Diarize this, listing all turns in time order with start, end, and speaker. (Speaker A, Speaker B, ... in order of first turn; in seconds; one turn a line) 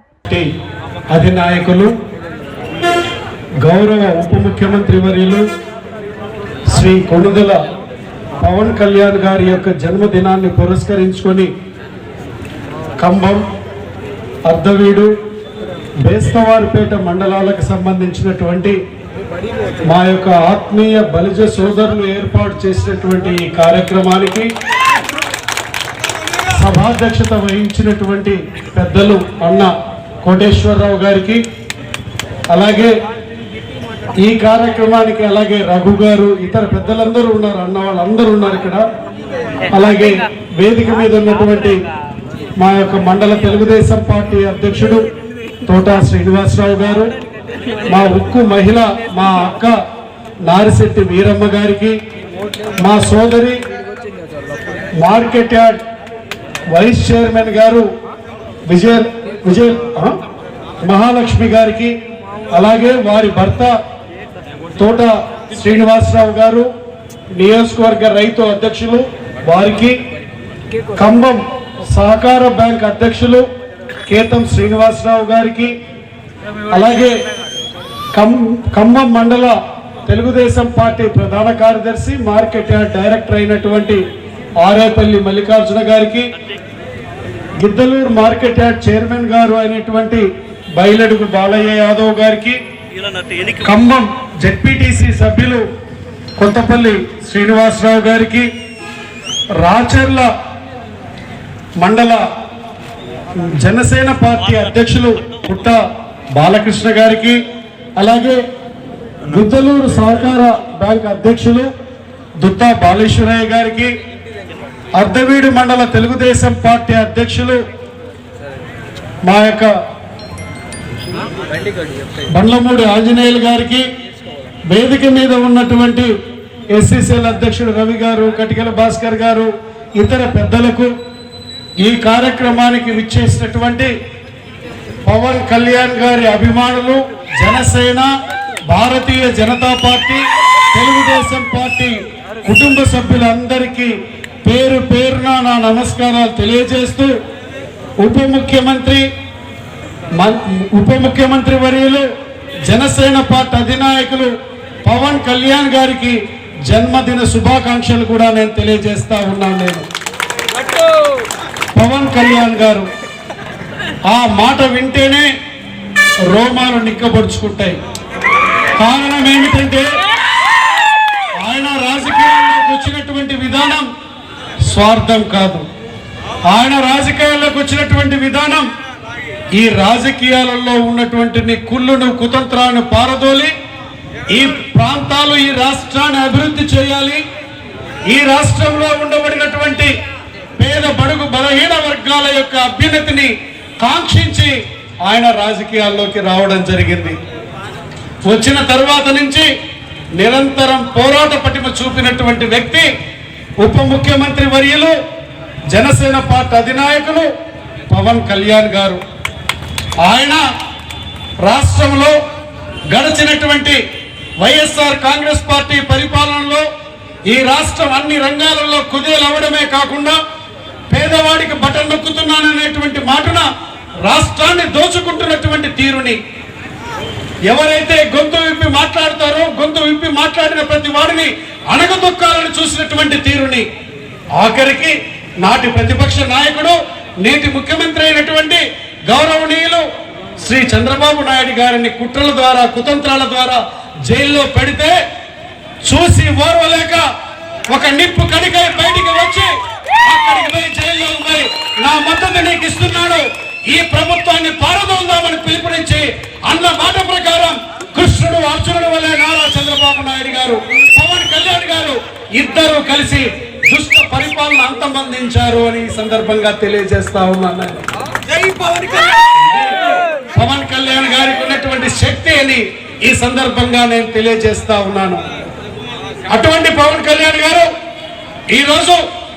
Speaker A: 1.1-1.9
Speaker A: 3.6-5.5
Speaker A: 6.7-7.6
Speaker A: 8.4-11.5
Speaker A: 13.0-13.4
Speaker A: 14.5-15.1
Speaker A: 16.0-18.8
Speaker A: 19.9-24.5
Speaker A: 26.5-29.7
Speaker A: 30.2-31.4
Speaker A: 32.5-32.9
Speaker A: 34.2-38.8
Speaker A: 39.7-41.8
Speaker A: 42.6-45.0
Speaker A: 45.7-47.1
Speaker A: 47.9-49.8
Speaker A: 50.4-52.0
Speaker A: 52.8-53.6
Speaker A: 55.0-55.8
Speaker A: 56.7-57.9
Speaker A: 58.6-60.2
Speaker A: 60.8-61.9
Speaker A: 62.5-63.8
Speaker A: 64.8-66.7
Speaker A: 67.3-70.0
Speaker A: 71.0-73.4
Speaker A: 74.0-75.8
Speaker A: 76.7-77.1
Speaker A: 78.1-84.0
Speaker A: 84.6-86.3
Speaker A: 87.6-92.6
Speaker A: 93.6-95.6
Speaker A: 96.4-98.5
Speaker A: 99.6-100.3
Speaker A: 101.8-102.2
Speaker A: 103.6-105.8
Speaker A: 106.3-107.4
Speaker A: 108.0-108.4
Speaker A: 109.3-111.7
Speaker A: 112.4-113.9
Speaker A: 115.0-117.6
Speaker A: 119.2-119.7
Speaker A: 122.3-123.8
Speaker A: 124.7-126.1
Speaker A: 126.7-130.9
Speaker A: 131.8-133.9
Speaker A: 135.0-138.1
Speaker A: 138.7-147.1
Speaker A: 148.0-149.1
Speaker A: 150.2-152.1
Speaker A: 152.7-154.3
Speaker A: 154.8-159.8
Speaker A: 161.8-162.9
Speaker A: 164.1-165.3
Speaker A: 166.3-167.8
Speaker A: 168.8-170.0
Speaker A: 171.4-173.9
Speaker A: 174.7-175.6
Speaker A: 176.5-178.7
Speaker A: 179.5-183.5
Speaker A: 184.3-187.2
Speaker A: 188.1-189.9
Speaker A: 190.6-194.5
Speaker A: 195.1-197.2
Speaker A: 198.2-199.5
Speaker A: 200.2-202.9
Speaker A: 203.6-204.9
Speaker A: 205.7-207.3
Speaker A: 207.9-209.0
Speaker A: 210.0-210.4
Speaker A: 211.4-212.2
Speaker A: 212.9-213.8
Speaker A: 214.4-216.6
Speaker A: 217.3-220.2
Speaker A: 220.9-223.4
Speaker A: 224.0-226.2
Speaker A: 227.5-233.7
Speaker A: 234.3-239.8
Speaker A: 240.4-244.9
Speaker A: 245.8-247.0
Speaker A: 247.7-267.8
Speaker A: 270.3-275.2
Speaker A: 276.3-277.7
Speaker A: 278.5-279.0